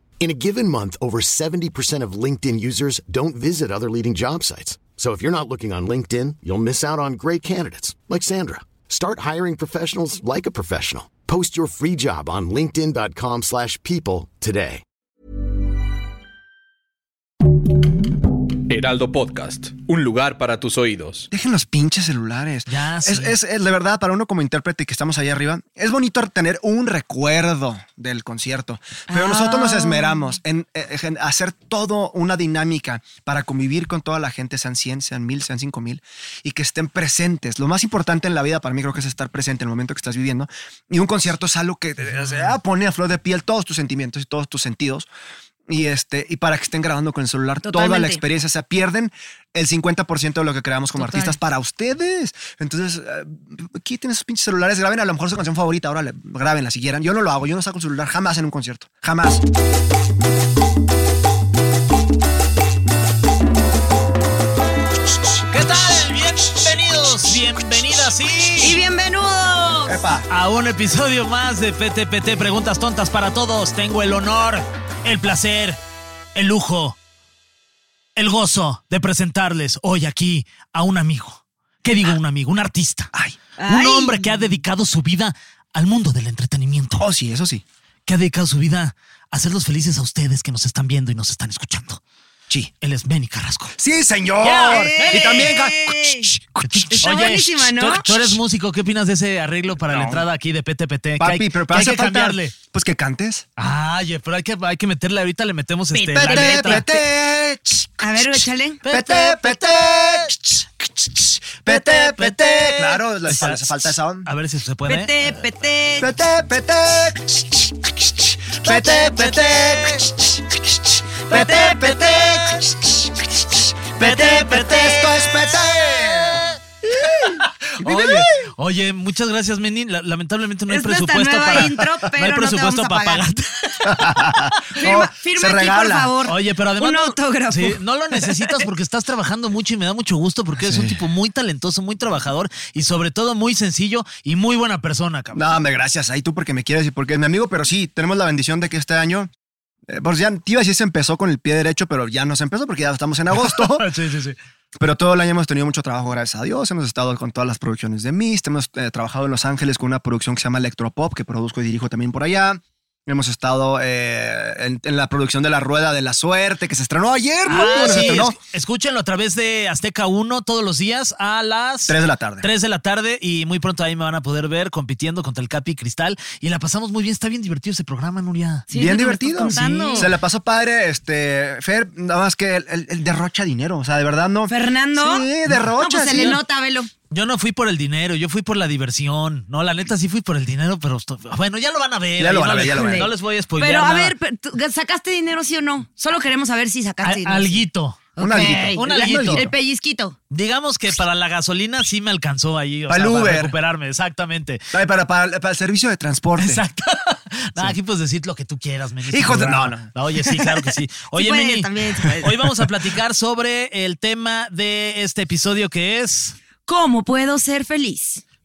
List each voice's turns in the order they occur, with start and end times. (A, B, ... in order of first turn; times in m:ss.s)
0:00.2-0:14.8 A
0:18.7-0:21.3 B
0:21.3-0:45.1 C
0:22.7-0:23.4 D
0:29.1-0:30.3 E
0:45.7-0:59.4 C
0:47.6-0:48.2 E
0:51.0-0:51.4 E
1:05.5-1:08.8 D
1:08.6-1:10.0 E
1:09.9-1:10.3 C
1:10.3-1:15.8 D
1:16.3-1:17.0 D
1:18.2-1:23.1 D
1:23.6-1:24.4 E
1:23.7-1:27.1 D
1:27.0-1:27.6 C
1:28.1-1:32.0 D
1:32.8-1:33.7 D
1:33.8-1:37.0 C
1:34.4-1:35.6 D
1:34.5-1:36.3 E
1:36.7-1:42.5 D
1:36.9-1:38.4 E
1:39.8-1:40.2 C
1:41.2-1:43.4 C
1:43.6-1:46.9 D
1:45.9-1:46.8 E
1:46.2-1:54.3 C
1:48.0-1:48.8 E
1:48.8-1:50.3 D
1:51.7-1:55.1 D
1:54.9-1:56.1 E
1:56.0-1:57.6 C
1:58.5-2:00.6 C
1:58.6-2:00.1 D
2:01.3-2:02.2 E
2:01.3-2:03.0 C
2:01.3-2:02.7 D
2:04.0-2:08.3 C
2:04.0-2:05.2 D
2:04.0-2:04.9 E
2:05.7-2:06.5 D
2:07.2-2:14.7 D
2:10.7-2:13.2 E
2:13.8-2:16.1 C
2:14.8-2:18.3 E
2:16.2-2:25.4 D
2:20.6-2:21.0 C
2:25.3-2:29.3 C
2:29.9-2:33.9 C
2:33.3-2:34.4 D
2:34.8-2:48.4 C
2:47.5-2:58.7 D
2:51.9-2:52.5 C
2:58.7-3:00.1 E
2:58.7-3:06.4 C
2:59.4-3:00.1 D
3:04.5-3:06.9 E
3:05.5-3:06.4 D
3:07.1-3:14.1 D
3:12.2-3:13.1 C
3:12.7-3:20.2 E
3:17.0-3:19.5 D
3:18.2-3:19.5 C
3:20.3-3:24.6 D
3:22.9-3:23.5 C
3:24.7-3:26.6 C
3:26.4-3:36.4 D
3:29.1-3:29.9 C
3:31.1-3:32.3 E
3:36.7-3:38.2 E